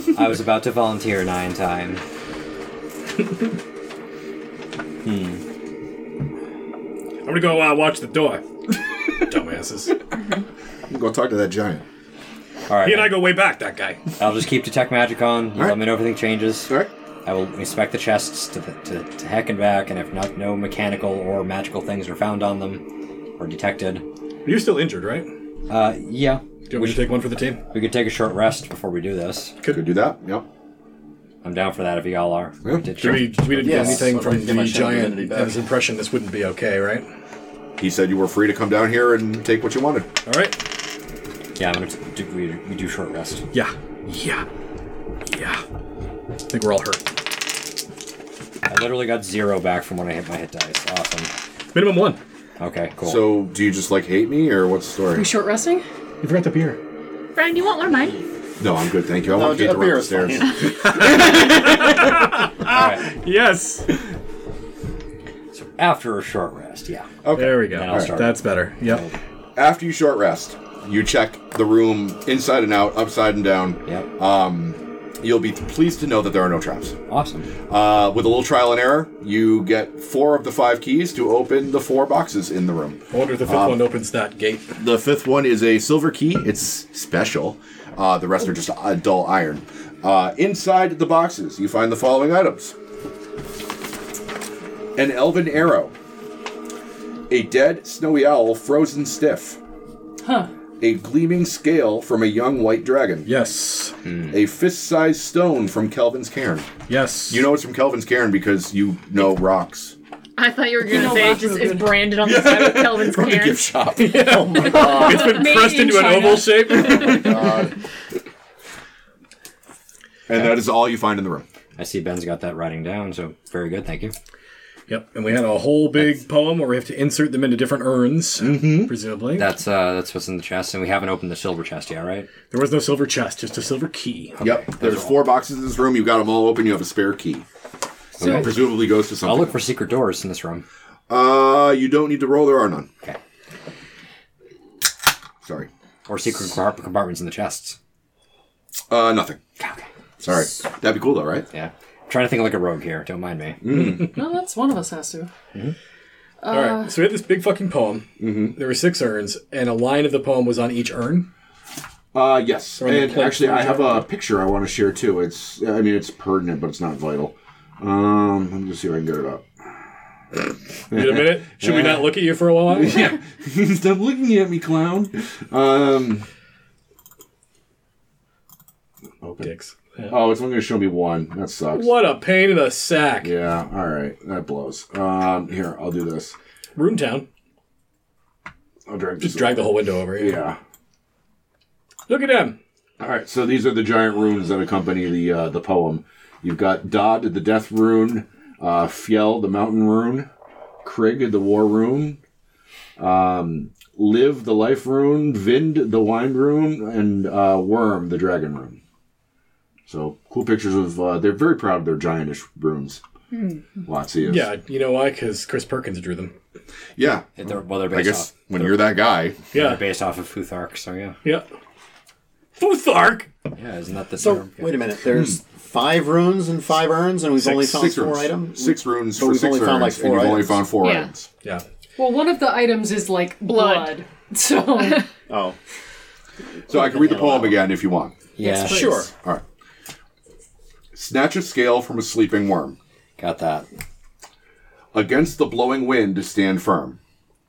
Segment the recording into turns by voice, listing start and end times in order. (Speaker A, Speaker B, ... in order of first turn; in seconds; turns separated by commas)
Speaker A: 0.1-2.0, Speaker A: 5.0-5.4, Speaker B: 7.2-9.9, Speaker C: 10.9-11.8, Speaker A: 12.7-13.3, Speaker B: 12.8-14.0, Speaker A: 14.2-22.9, Speaker C: 15.6-15.8, Speaker A: 23.4-24.0, Speaker B: 24.4-25.3, Speaker A: 25.7-27.1, Speaker B: 26.7-27.6, Speaker A: 27.7-29.6, Speaker B: 29.6-29.9, Speaker C: 29.7-30.4, Speaker A: 31.4-34.2, Speaker C: 32.6-33.3, Speaker B: 33.0-37.0, Speaker D: 33.6-35.6, Speaker C: 37.8-40.1, Speaker B: 40.2-40.6, Speaker A: 41.6-43.5, Speaker B: 43.5-44.5, Speaker B: 45.2-45.6, Speaker B: 46.5-47.1, Speaker A: 48.7-51.3, Speaker B: 51.7-52.2, Speaker A: 52.6-53.3, Speaker C: 53.0-55.3, Speaker E: 55.1-55.8, Speaker B: 56.2-56.8, Speaker F: 57.3-58.3, Speaker C: 58.6-60.6, Speaker D: 59.3-61.1, Speaker B: 60.6-64.0, Speaker A: 62.6-63.1, Speaker A: 65.5-69.1, Speaker C: 67.2-68.2, Speaker B: 67.3-69.0, Speaker C: 69.5-77.0, Speaker A: 77.1-77.5, Speaker C: 77.7-83.8, Speaker B: 83.1-84.7, Speaker C: 84.8-92.7, Speaker C: 95.0-95.9, Speaker C: 97.3-99.6, Speaker E: 100.2-100.5, Speaker C: 100.8-103.3, Speaker B: 103.2-104.0, Speaker A: 104.1-104.3, Speaker C: 104.3-106.8, Speaker B: 106.9-107.5, Speaker C: 107.3-109.9, Speaker F: 110.4-113.7, Speaker E: 110.8-112.1, Speaker C: 112.1-114.4, Speaker B: 113.9-117.5, Speaker D: 114.2-115.4, Speaker E: 114.6-117.2, Speaker F: 114.9-116.3, Speaker D: 117.1-117.7, Speaker C: 120.3-121.5, Speaker A: 121.8-124.1, Speaker B: 124.9-129.5, Speaker C: 128.4-128.9, Speaker A: 129.3-132.3, Speaker B: 132.5-134.4, Speaker A: 134.4-135.2, Speaker C: 134.4-137.4, Speaker C: 138.2-139.6, Speaker E: 138.2-138.4, Speaker A: 138.2-138.6, Speaker A: 139.2-140.6, Speaker C: 141.1-142.9, Speaker C: 145.4-145.7, Speaker A: 146.1-147.8, Speaker C: 148.9-149.4, Speaker A: 149.6-149.9, Speaker C: 150.2-151.5, Speaker A: 151.5-153.6, Speaker C: 153.6-154.1, Speaker E: 154.1-155.3, Speaker E: 156.4-157.1, Speaker B: 156.5-161.3, Speaker C: 158.2-158.6, Speaker C: 162.1-169.5, Speaker B: 162.8-164.0, Speaker B: 170.9-173.1, Speaker C: 170.9-176.2, Speaker B: 179.2-180.1, Speaker C: 180.1-182.0, Speaker B: 181.7-183.3, Speaker C: 183.2-186.3, Speaker B: 186.8-187.2, Speaker C: 188.9-190.6, Speaker B: 189.2-190.4, Speaker B: 192.1-192.6, Speaker C: 193.0-200.3, Speaker C: 200.8-202.2, Speaker C: 203.0-208.8, Speaker C: 209.9-213.0, Speaker F: 213.3-213.6, Speaker C: 213.8-214.5, Speaker B: 214.2-216.3, Speaker C: 217.0-219.4, Speaker A: 217.4-218.8, Speaker B: 219.5-219.8, Speaker A: 219.5-221.2, Speaker B: 222.6-223.3, Speaker A: 223.6-224.7, Speaker D: 224.2-230.7, Speaker B: 227.4-227.8, Speaker C: 227.7-231.3, Speaker F: 230.8-231.1, Speaker E: 231.9-235.1, Speaker F: 233.4-233.9, Speaker F: 234.8-235.0, Speaker D: 235.3-235.6, Speaker D: 236.7-237.6, Speaker C: 236.7-238.1, Speaker A: 238.3-239.0, Speaker E: 238.4-239.1, Speaker D: 238.7-239.1, Speaker C: 239.1-239.4, Speaker C: 240.9-242.8, Speaker A: 243.2-243.7, Speaker C: 244.9-247.0